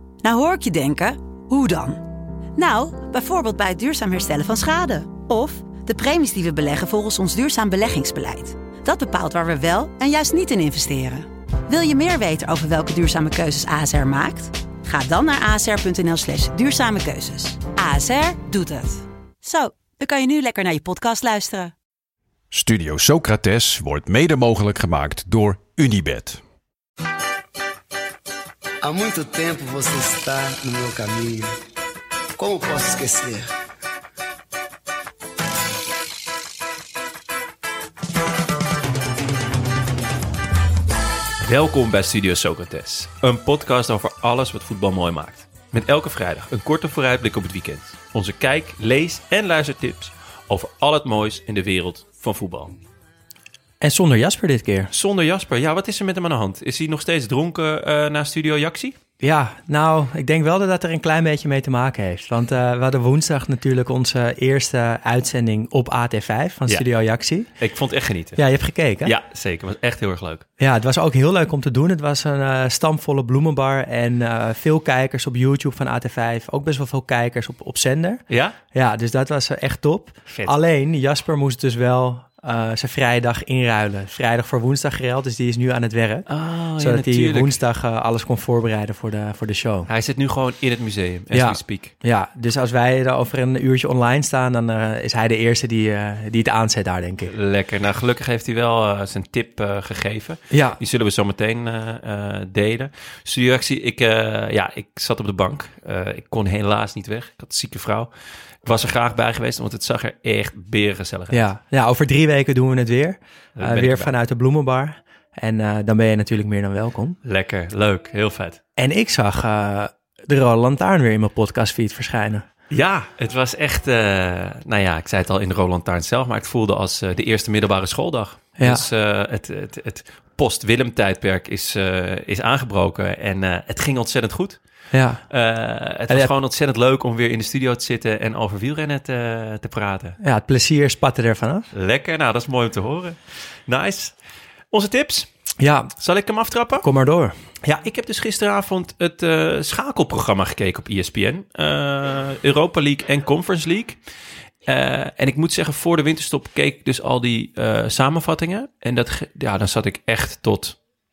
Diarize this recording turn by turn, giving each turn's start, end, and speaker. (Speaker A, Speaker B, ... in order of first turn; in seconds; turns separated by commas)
Speaker A: 0.2-2.0, Speaker A: 2.5-21.7, Speaker B: 22.5-26.4, Speaker C: 28.8-31.5, Speaker C: 32.4-33.5, Speaker D: 41.4-52.8, Speaker E: 53.8-54.9, Speaker D: 54.9-59.0, Speaker E: 59.2-67.5, Speaker D: 67.6-68.4, Speaker E: 68.3-69.1, Speaker D: 69.0-70.4, Speaker E: 70.6-78.2, Speaker D: 78.3-78.5, Speaker E: 78.7-89.9, Speaker D: 86.3-87.6, Speaker D: 89.9-91.9, Speaker E: 91.3-97.3, Speaker D: 97.2-108.1, Speaker E: 100.5-100.8, Speaker D: 108.6-111.5, Speaker E: 111.3-117.2, Speaker D: 113.6-114.1, Speaker D: 117.2-118.6, Speaker E: 118.8-122.5, Speaker D: 122.7-134.6, Speaker E: 128.6-128.9, Speaker E: 134.9-135.2, Speaker D: 135.3-140.2, Speaker E: 140.2-141.7, Speaker D: 141.7-144.1, Speaker D: 144.7-145.3, Speaker E: 145.6-145.9, Speaker D: 146.0-146.9, Speaker E: 146.8-147.3, Speaker D: 147.6-154.0, Speaker D: 154.7-160.8